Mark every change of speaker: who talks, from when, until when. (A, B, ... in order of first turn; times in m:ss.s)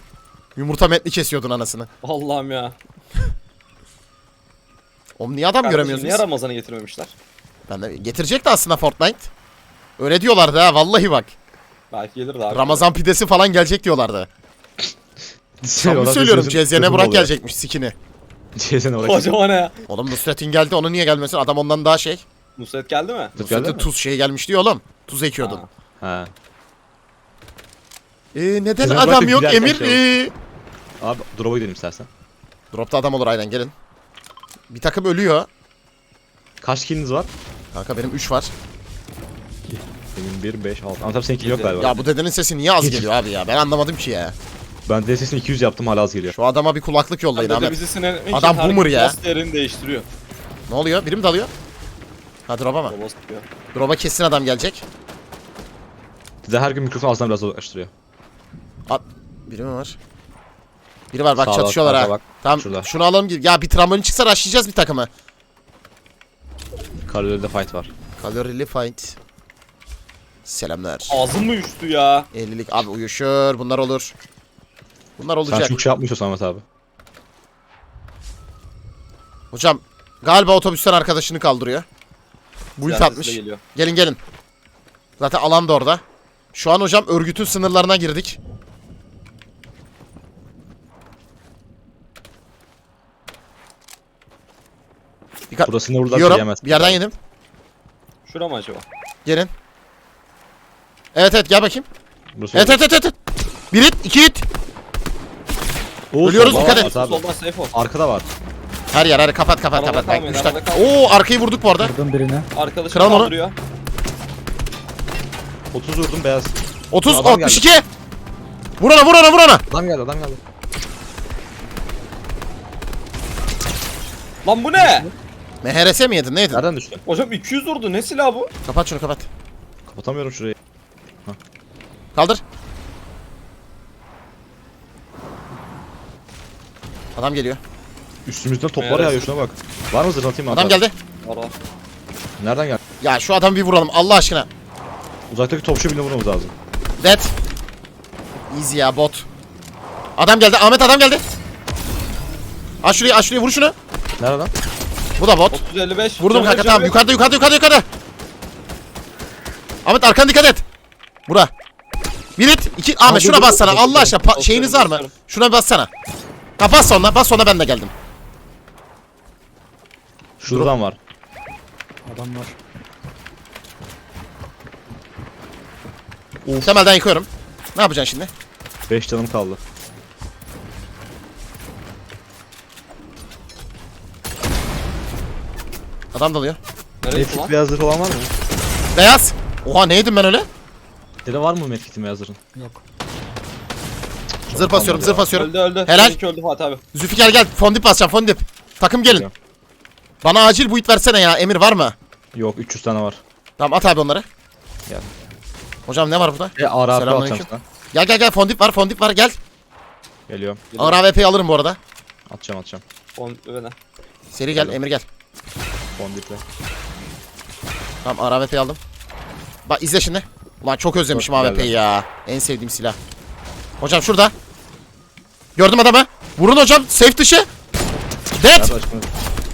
0:00.6-0:01.9 A
0:02.0-0:02.8 B
0:05.2-0:06.2 A
0:05.6-0:07.1 B
0:07.7-0:09.3 A
0:10.0-0:11.3 A
0:11.9-0:12.8 B
0:12.5-0:14.3 A
0:15.6-0:17.3 C
0:15.8-0:17.9 A
0:18.6-0:19.3 C
0:19.0-0:19.8 B
0:19.9-0:22.2 A
0:22.6-0:23.3 B
0:23.3-0:23.9 C
0:23.4-0:25.6 A
0:25.4-0:25.7 B
0:26.0-0:26.3 C
0:28.3-0:30.3 A
0:28.8-0:30.0 C
0:31.0-0:32.1 C
0:32.7-0:33.7 A
0:34.7-0:35.5 A
0:36.6-0:37.3 C
0:37.7-0:38.5 A
0:40.1-0:41.9 C
0:41.4-0:42.0 B
0:41.8-0:44.3 A
0:42.8-0:43.1 C
0:44.9-0:46.3 C
0:46.3-0:47.8 A
0:47.3-0:50.1 B
0:48.3-0:49.2 A
0:50.7-0:51.5 A
0:52.5-0:52.9 A
0:52.9-0:53.4 B
0:53.7-0:54.8 A
0:56.4-0:57.9 C
0:58.9-1:00.0 A
1:01.1-1:05.1 A
1:01.4-1:02.9 C
1:07.0-1:07.9 C
1:08.2-1:09.2 A
1:10.4-1:11.2 A
1:11.1-1:12.3 B
1:12.3-1:14.1 A
1:15.2-1:15.8 A
1:15.4-1:16.6 C
1:19.5-1:21.8 A
1:22.8-1:24.2 A
1:22.8-1:23.6 B
1:25.2-1:26.0 A
1:26.5-1:28.4 A
1:35.5-1:37.1 A
1:35.6-1:37.0 C
1:38.2-1:38.8 B
1:39.2-1:39.5 A
1:41.1-1:41.8 A
1:42.3-1:42.8 C
1:42.5-1:43.1 A
1:43.7-1:44.4 A
1:46.1-1:48.3 C
1:46.2-1:46.9 A
1:46.4-1:47.7 B
1:48.9-1:51.9 A
1:49.7-1:50.9 B
1:51.8-1:52.5 D
1:52.5-1:53.6 B
1:52.9-1:53.3 A
1:55.7-1:56.5 C
1:56.9-1:57.8 A
1:57.0-1:57.6 C
1:58.8-1:59.6 A
1:59.7-2:00.4 C
2:04.4-2:05.1 B
2:04.8-2:05.1 D
2:05.6-2:06.6 A
2:06.5-2:07.0 C
2:07.0-2:08.5 B
2:08.6-2:09.3 A
2:09.9-2:10.5 C
2:12.1-2:12.4 A
2:17.2-2:17.6 A
2:18.2-2:20.8 C
2:18.8-2:19.2 B
2:20.5-2:20.9 A
2:21.2-2:21.5 B
2:22.4-2:22.8 C
2:23.0-2:24.5 A
2:25.3-2:26.5 C
2:27.0-2:27.3 A
2:28.5-2:29.2 A
2:30.2-2:31.2 A
2:32.8-2:33.7 A
2:34.2-2:34.5 C
2:35.2-2:35.6 A
2:35.5-2:37.0 B
2:36.2-2:37.8 A
2:39.8-2:40.6 A
2:41.3-2:41.5 A
2:42.4-2:45.9 A
2:43.0-2:44.1 D
2:44.2-2:45.1 B
2:46.6-2:47.9 A
2:50.4-2:51.0 C
2:52.0-2:52.6 D
2:56.4-2:56.8 C
2:56.6-2:58.3 A
2:58.9-2:59.6 C
3:06.1-3:06.6 A
3:07.0-3:07.5 B
3:07.1-3:08.3 C
3:08.9-3:10.5 A
3:11.2-3:12.4 C
3:12.5-3:12.8 D
3:14.5-3:15.3 C
3:14.5-3:16.2 A
3:15.3-3:16.8 B
3:16.9-3:19.3 A
3:19.0-3:19.3 C
3:20.2-3:21.9 A
3:22.3-3:23.2 C
3:23.6-3:24.2 A
3:25.9-3:29.4 A
3:26.6-3:27.6 C
3:30.3-3:30.6 C
3:30.7-3:31.0 B
3:30.8-3:31.8 A
3:32.3-3:32.8 C
3:33.2-3:33.8 B
3:34.3-3:35.1 A
3:36.0-3:36.4 C
3:38.0-3:38.8 A
3:39.7-3:43.0 A
3:41.1-3:41.7 C
3:43.8-3:44.3 A
3:45.6-3:47.4 A
3:48.4-3:48.7 A
3:48.5-3:49.1 C